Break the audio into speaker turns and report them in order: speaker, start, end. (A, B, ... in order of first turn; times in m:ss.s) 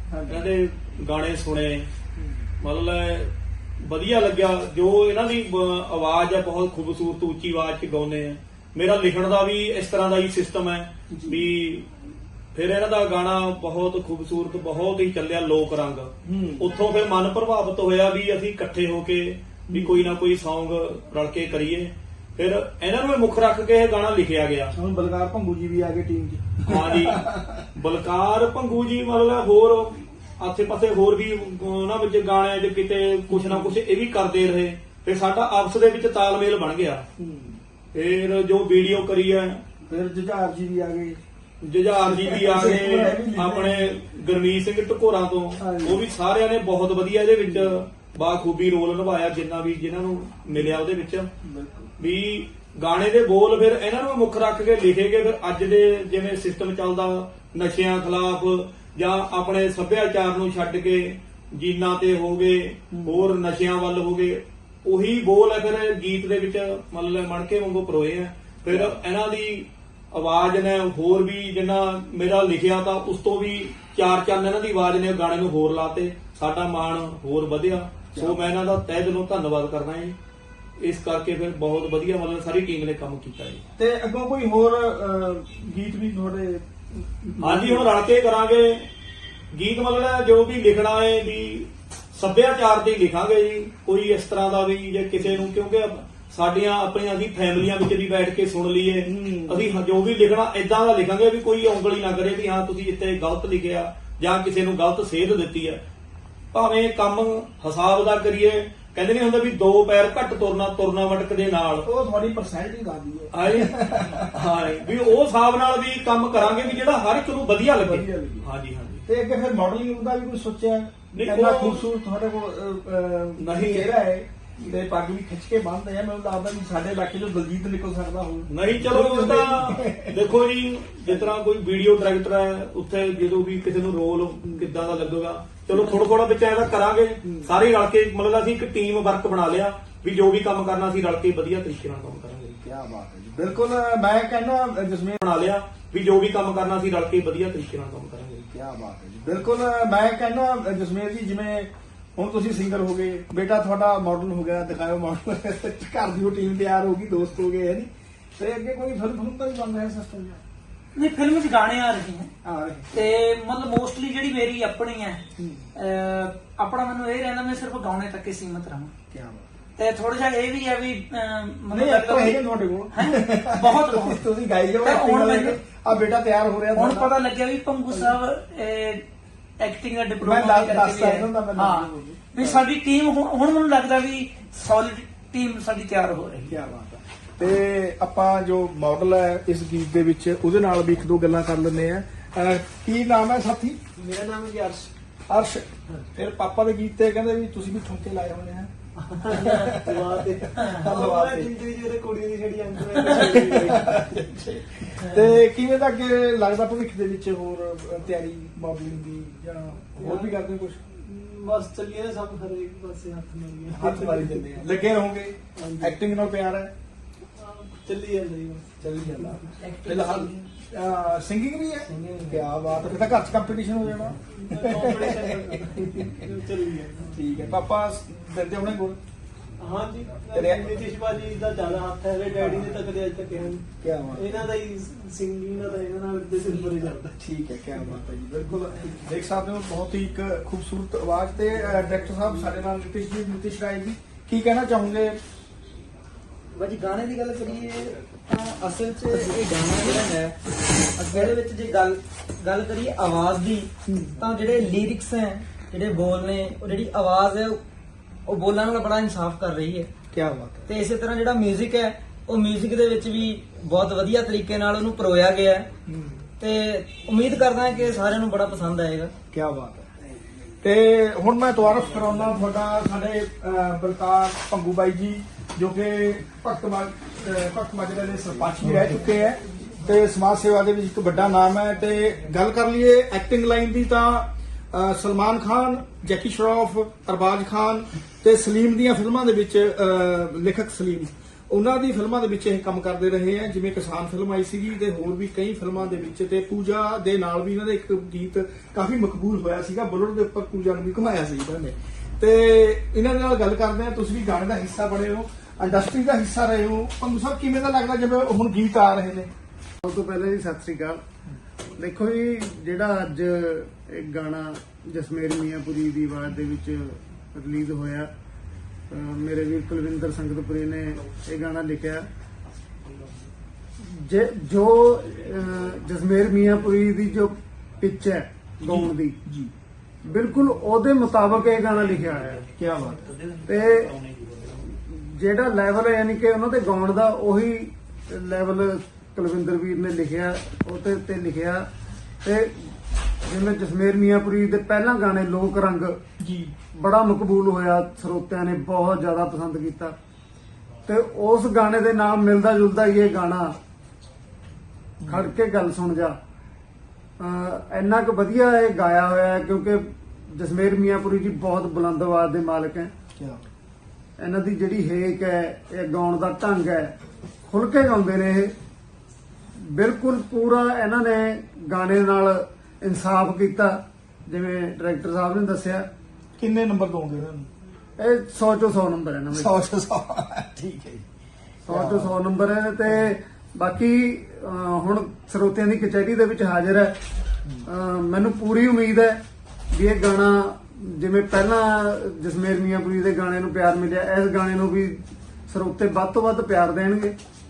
0:00.1-0:00.4 A
0:00.3-0:01.9 B
0:02.2-0:02.4 A
0:02.6-0:11.9 B
0:11.1-0:11.5 A
0:12.5-0:24.7 B
0:16.2-0:16.6 A
0:19.7-0:20.1 A
0:24.7-0:27.6 A
0:26.7-0:27.2 B
0:27.7-0:37.0 B
0:33.3-0:33.8 A
0:37.2-0:37.6 A
0:37.9-0:39.6 B
0:39.8-0:41.2 A
0:41.6-0:51.3 B
0:41.9-0:43.9 A
0:45.6-0:46.0 A
0:47.4-0:47.8 A
0:51.4-0:51.9 A
0:52.0-1:20.2 B
1:02.9-1:03.3 A
1:08.7-1:09.0 A
1:18.1-1:18.6 A
1:20.8-1:23.6 B
1:23.8-1:27.9 A
1:27.4-1:28.9 B
1:29.5-1:45.8 B
1:39.0-1:39.7 A
1:46.5-1:51.8 B
1:51.8-1:54.3 A
1:53.3-1:53.7 B
1:54.3-1:59.0 B
1:57.7-1:58.4 A
1:59.0-2:10.2 A
2:01.1-2:01.8 B
2:03.4-2:03.9 B
2:08.5-2:22.6 B
2:14.4-2:14.7 A
2:17.2-2:17.5 A
2:22.6-2:25.2 A
2:25.2-2:28.4 B
2:28.4-2:40.4 A
2:41.0-2:42.3 C
2:42.4-2:42.9 A
2:42.9-2:45.2 C
2:45.4-2:45.7 A
2:45.7-2:48.9 C
2:49.1-2:49.5 A
2:49.8-2:52.4 C
2:51.7-2:57.1 A
2:52.9-2:54.2 C
2:54.8-2:55.6 C
2:56.7-2:59.0 C
2:57.9-2:58.2 A
2:59.6-3:06.6 C
3:00.2-3:02.6 A
3:06.5-3:13.8 A
3:14.0-3:14.9 D
3:15.3-3:18.7 A
3:19.0-3:24.2 D
3:19.3-3:20.0 A
3:20.6-3:21.5 A
3:23.1-3:30.8 A
3:30.0-3:30.4 D
3:30.9-3:34.9 D
3:33.7-3:36.7 A
3:35.6-3:35.9 D
3:37.4-3:39.5 D
3:38.8-3:46.4 A
3:39.6-3:40.5 C
3:42.0-3:42.4 E
3:44.3-3:47.1 D
3:47.1-3:49.0 A
3:49.6-3:57.2 D
3:50.3-3:50.7 A
3:52.3-3:52.8 A
3:53.8-3:54.3 A
3:57.2-4:05.2 A
4:06.5-4:10.3 E
4:11.0-4:17.6 E
4:13.9-4:14.2 A
4:18.3-4:19.9 E
4:20.1-4:20.7 A
4:20.7-4:25.7 E
4:25.9-4:26.2 A
4:26.4-4:29.1 E
4:29.3-4:29.9 A
4:30.6-5:09.3 A
5:09.8-5:11.0 F
5:11.8-5:18.1 F
5:18.9-5:22.1 F
5:23.8-5:29.2 F
5:28.6-5:29.5 A
5:30.0-5:32.4 F
5:31.7-5:32.4 B
5:32.5-5:33.1 A
5:33.0-5:34.7 B
5:33.5-5:33.9 F
5:34.7-5:41.7 F
5:42.2-5:42.7 F
5:43.2-5:46.0 F
5:46.2-5:46.5 A
5:46.8-5:49.9 F
5:50.8-5:53.6 F
5:55.0-5:55.3 A
5:55.1-5:56.2 F
5:57.2-6:02.9 F
6:03.2-6:03.4 A
6:04.2-6:07.0 F
6:07.5-6:08.5 F
6:09.6-6:15.9 F
6:16.4-6:17.5 A
6:18.0-6:19.5 F
6:19.3-6:21.0 A
6:21.6-6:27.0 F
6:21.7-6:22.1 A
6:27.6-6:29.2 F
6:29.7-6:37.2 F